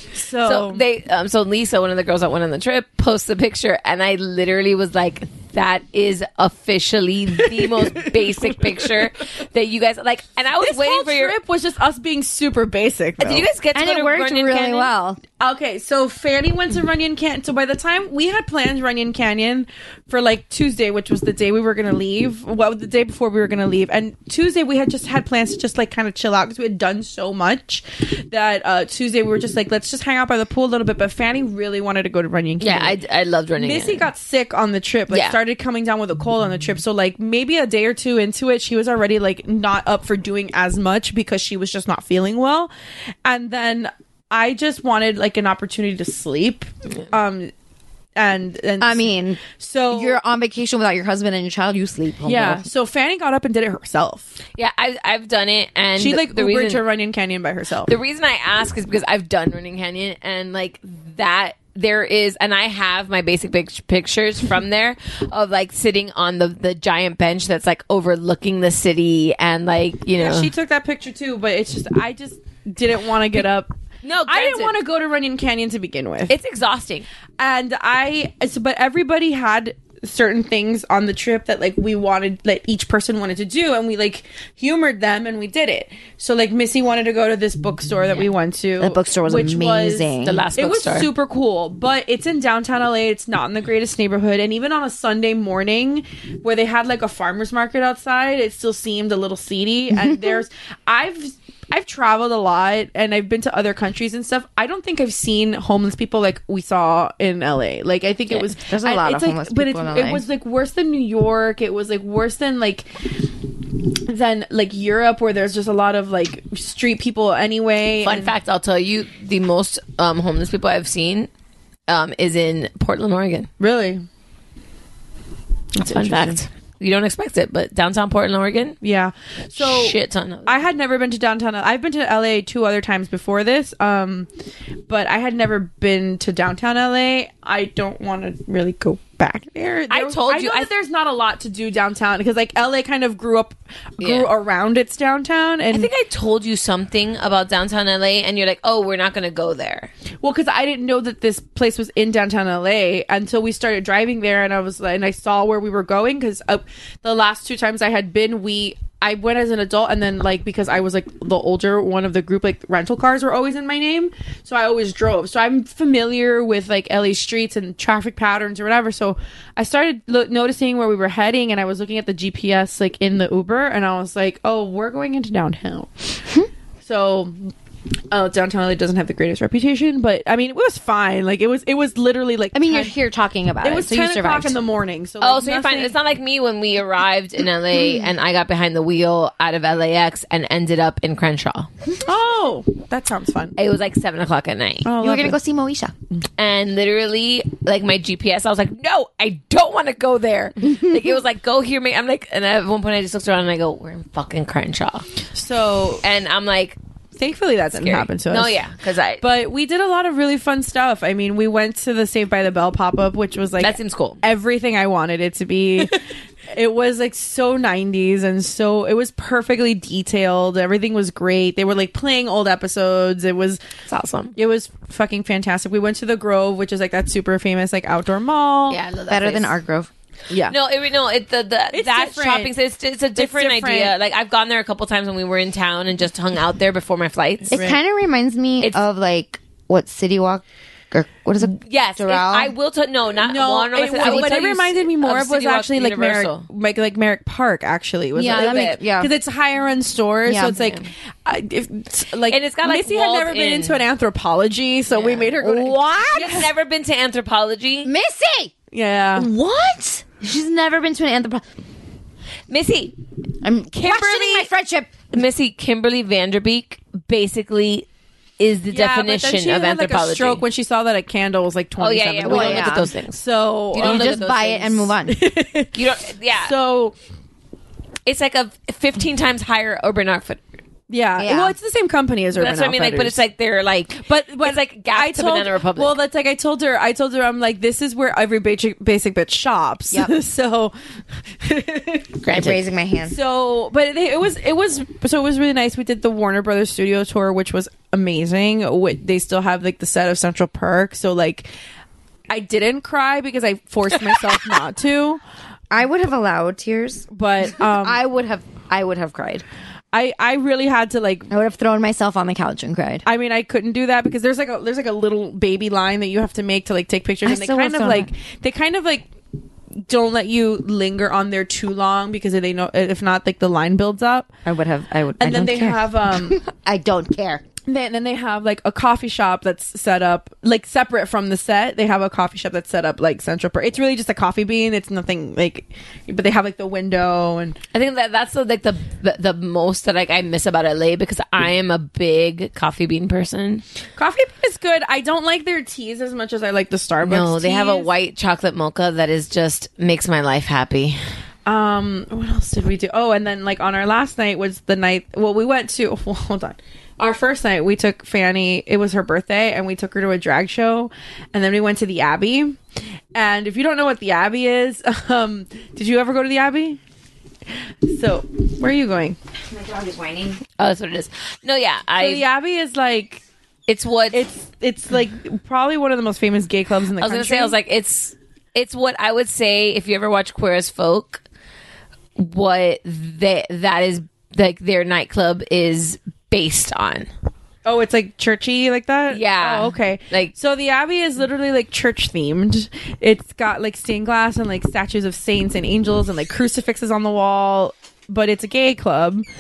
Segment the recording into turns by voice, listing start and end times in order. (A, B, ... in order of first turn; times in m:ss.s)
0:00.1-0:00.8 A
0:00.4-0:11.4 B
0:07.5-0:08.9 A
0:10.6-0:13.5 A
0:13.2-0:14.9 B
0:13.7-0:15.2 C
0:15.4-0:33.0 A
0:32.6-0:34.1 B
0:33.6-0:42.7 A
0:35.1-0:35.4 B
0:43.2-0:47.5 A
0:48.2-0:50.2 A
0:48.8-0:52.7 C
0:52.2-0:54.4 A
0:54.6-0:56.8 B
0:56.0-0:57.9 A
0:57.9-1:10.5 B
1:10.2-1:13.7 A
1:14.0-1:14.8 B
1:14.3-1:16.3 A
1:16.3-1:17.1 B
1:17.4-1:52.9 A
1:28.8-1:30.4 C
1:30.2-1:31.1 B
1:40.0-1:40.4 C
1:48.7-1:50.2 C
1:54.1-1:58.3 A
1:58.0-2:01.3 B
2:01.9-2:03.5 B
2:03.6-2:04.1 A
2:05.8-2:06.5 A
2:05.9-2:08.8 B
2:08.8-2:14.3 A
2:09.6-2:10.5 B
2:14.9-2:25.9 A
2:19.9-2:20.7 B
2:24.0-2:24.3 B
2:25.7-2:29.9 B
2:30.2-2:56.3 A
2:56.8-2:57.5 A
2:58.1-3:03.0 A
3:02.5-3:04.6 C
3:03.6-3:06.0 A
3:05.2-3:11.7 B
3:07.8-3:08.0 C
3:12.0-3:13.6 A
3:13.6-3:14.9 B
3:14.8-3:15.4 A
3:15.0-3:15.9 C
3:16.4-3:25.1 B
3:25.3-3:26.0 A
3:26.0-3:26.8 B
3:27.2-3:28.7 A
3:27.7-3:29.2 B
3:29.2-3:43.6 A
3:33.6-3:34.2 B
3:43.9-3:44.3 B
3:44.4-3:48.8 A
3:48.7-3:49.6 B
3:49.1-3:49.9 C
3:50.3-3:50.6 A
3:50.5-3:57.6 B
3:51.7-3:52.5 A
3:53.2-3:54.0 A
3:57.5-3:57.8 A
3:57.5-4:02.5 C
4:01.5-4:06.5 B
4:03.2-4:16.5 A
4:04.0-4:04.3 C
4:08.2-4:09.1 C
4:08.3-4:08.8 B
4:10.3-4:10.6 C
4:10.6-4:10.9 B
4:12.3-4:13.8 B
4:14.9-4:15.4 B
4:15.4-4:16.4 C
4:16.1-4:17.9 B
4:17.8-4:18.5 C
4:18.7-4:19.3 A
4:19.2-4:21.4 C
4:22.5-4:23.0 B
4:23.4-4:25.0 C
4:23.8-4:24.5 B
4:25.1-4:27.9 B
4:28.4-4:30.4 B
4:28.7-4:34.1 A
4:31.8-4:33.2 B
4:32.2-4:32.9 C
4:33.7-4:34.9 B
4:33.8-4:35.2 C
4:35.1-4:35.8 A
4:35.8-4:36.5 B
4:36.4-4:37.0 A
4:38.1-4:40.4 B
4:40.9-4:43.2 A
4:41.2-4:41.6 C
4:42.4-4:46.0 B
4:44.0-4:50.7 A
4:51.4-5:01.5 A
4:52.2-4:52.6 B
4:52.3-4:53.2 C
5:02.3-5:05.2 A
5:05.7-5:09.4 C
5:07.1-5:08.0 A
5:09.9-5:11.3 A
5:11.3-5:13.0 C
5:13.0-5:19.1 A
5:17.2-5:18.1 C
5:19.9-5:24.3 A
5:24.4-5:27.4 C
5:25.2-5:26.4 A
5:27.7-5:37.6 A
5:37.7-5:43.6 B
5:44.0-5:47.9 A
5:47.0-5:51.0 B
5:51.5-6:02.6 A
6:03.2-6:06.8 A
6:07.8-6:09.2 A
6:09.5-6:10.4 C
6:10.6-6:12.2 B
6:12.0-6:13.2 A
6:13.7-6:14.2 B
6:14.1-6:17.6 A
6:17.0-6:21.2 B
6:22.2-6:27.1 B
6:27.6-6:39.3 A
6:29.1-6:30.3 B